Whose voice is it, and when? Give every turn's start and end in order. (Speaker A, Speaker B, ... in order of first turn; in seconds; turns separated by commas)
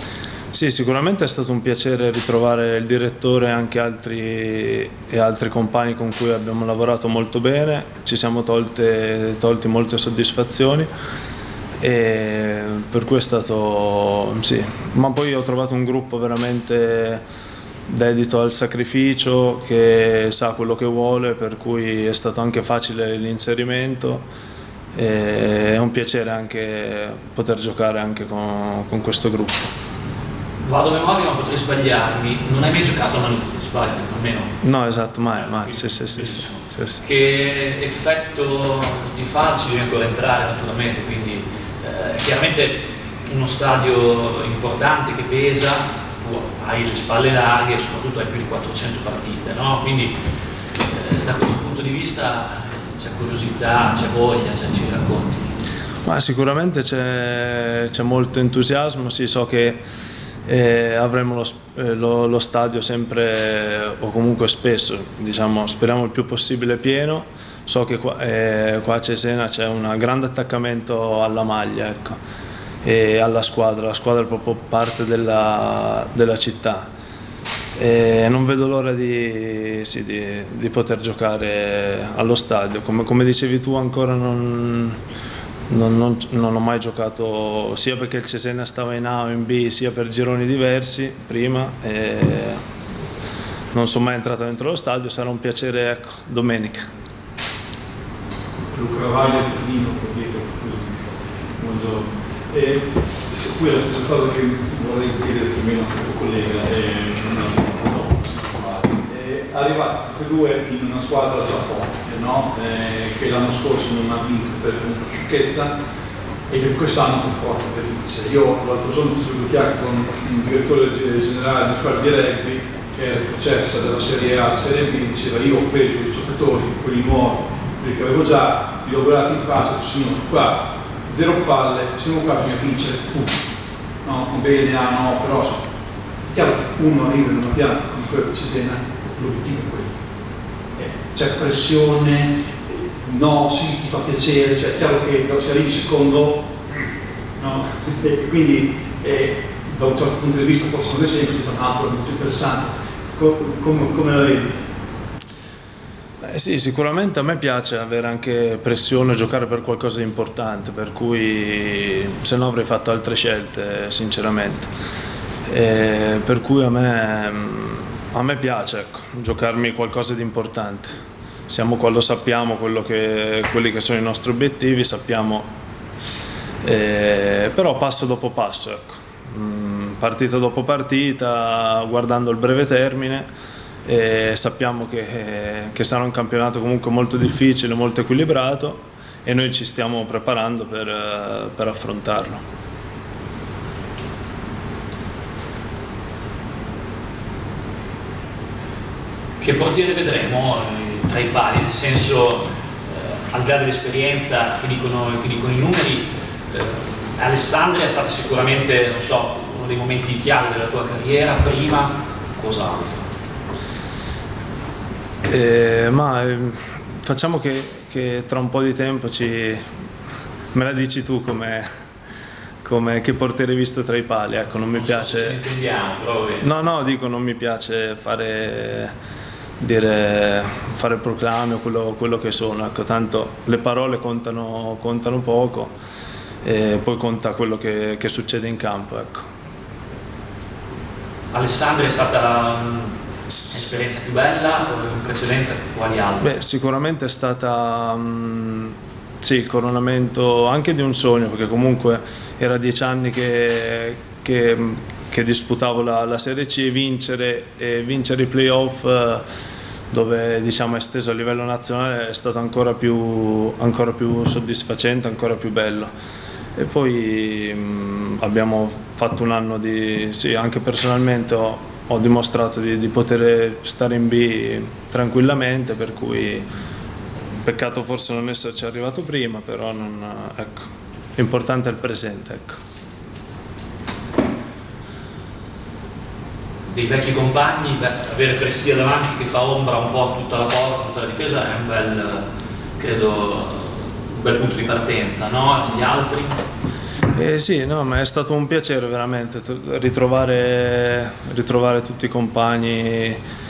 Speaker A: 0.5-10.9, Speaker A: 11.8-17.2, Speaker A: 17.9-24.2, Speaker A: 24.9-29.7, Speaker B: 30.6-34.5, Speaker A: 34.6-37.0, Speaker B: 35.4-50.1, Speaker B: 50.9-55.5, Speaker A: 56.0-59.8, Speaker A: 60.5-72.2, Speaker A: 72.8-76.9, Speaker A: 77.8-85.0, Speaker A: 85.7-92.6, Speaker A: 93.7-96.8, Speaker C: 98.7-115.8, Speaker C: 116.5-133.4, Speaker C: 134.0-135.6, Speaker C: 136.3-139.9, Speaker C: 140.8-146.5, Speaker C: 147.4-154.6, Speaker A: 156.2-164.7, Speaker A: 165.5-175.5, Speaker A: 176.6-183.3, Speaker A: 183.8-192.4, Speaker B: 199.4-213.1, Speaker A: 215.3-219.7, Speaker A: 220.5-221.7, Speaker A: 222.6-225.4, Speaker B: 224.7-226.5, Speaker A: 226.4-228.9, Speaker A: 229.6-235.7, Speaker A: 236.4-239.2, Speaker B: 241.3-242.9, Speaker B: 243.4-246.3, Speaker A: 246.2-259.2, Speaker A: 259.9-265.9, Speaker A: 266.6-276.4, Speaker A: 277.4-282.6, Speaker B: 286.7-292.2, Speaker B: 292.8-296.4, Speaker A: 297.1-303.2